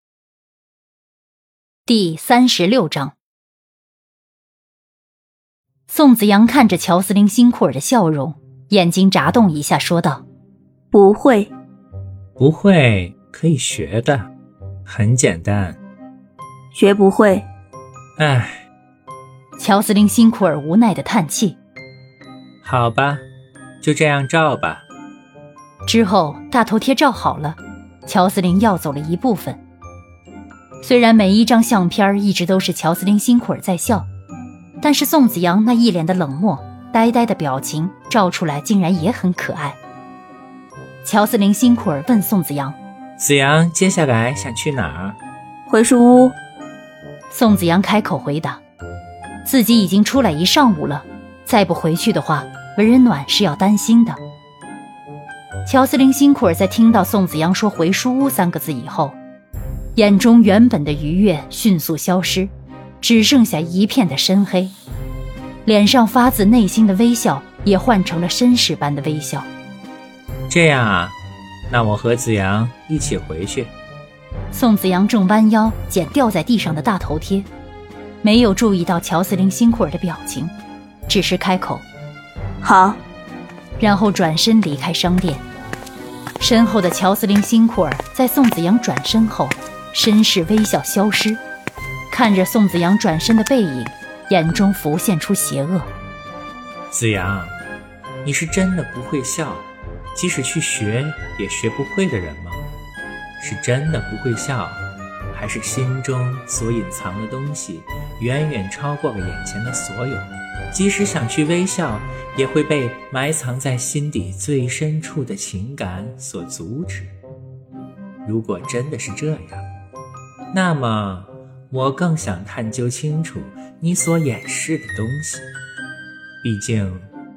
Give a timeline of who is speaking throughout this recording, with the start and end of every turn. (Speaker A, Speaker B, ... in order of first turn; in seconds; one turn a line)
Speaker A: 1.9-3.1
Speaker A: 5.9-10.2
Speaker B: 10.9-11.5
Speaker C: 12.4-14.3
Speaker C: 14.8-15.8
Speaker B: 16.7-17.5
Speaker C: 18.2-18.6
Speaker A: 19.6-21.6
Speaker C: 22.6-23.2
Speaker C: 23.8-24.8
Speaker A: 25.9-29.6
Speaker A: 30.8-34.1
Speaker A: 34.8-39.8
Speaker A: 41.0-42.8
Speaker C: 43.2-45.2
Speaker B: 45.7-46.3
Speaker A: 47.3-48.6
Speaker A: 49.4-54.2
Speaker A: 55.6-59.2
Speaker A: 59.9-64.7
Speaker A: 65.6-69.5
Speaker C: 70.5-71.2
Speaker C: 71.7-73.7
Speaker A: 74.5-77.5
Speaker A: 78.2-80.5
Speaker A: 81.1-81.8
Speaker B: 82.6-83.0
Speaker A: 83.8-85.5
Speaker A: 86.4-91.4
Speaker A: 92.1-95.9
Speaker C: 96.9-97.6
Speaker C: 98.2-102.6
Speaker C: 103.4-117.1
Speaker C: 118.2-119.6
Speaker C: 120.5-125.5
Speaker C: 126.4-127.1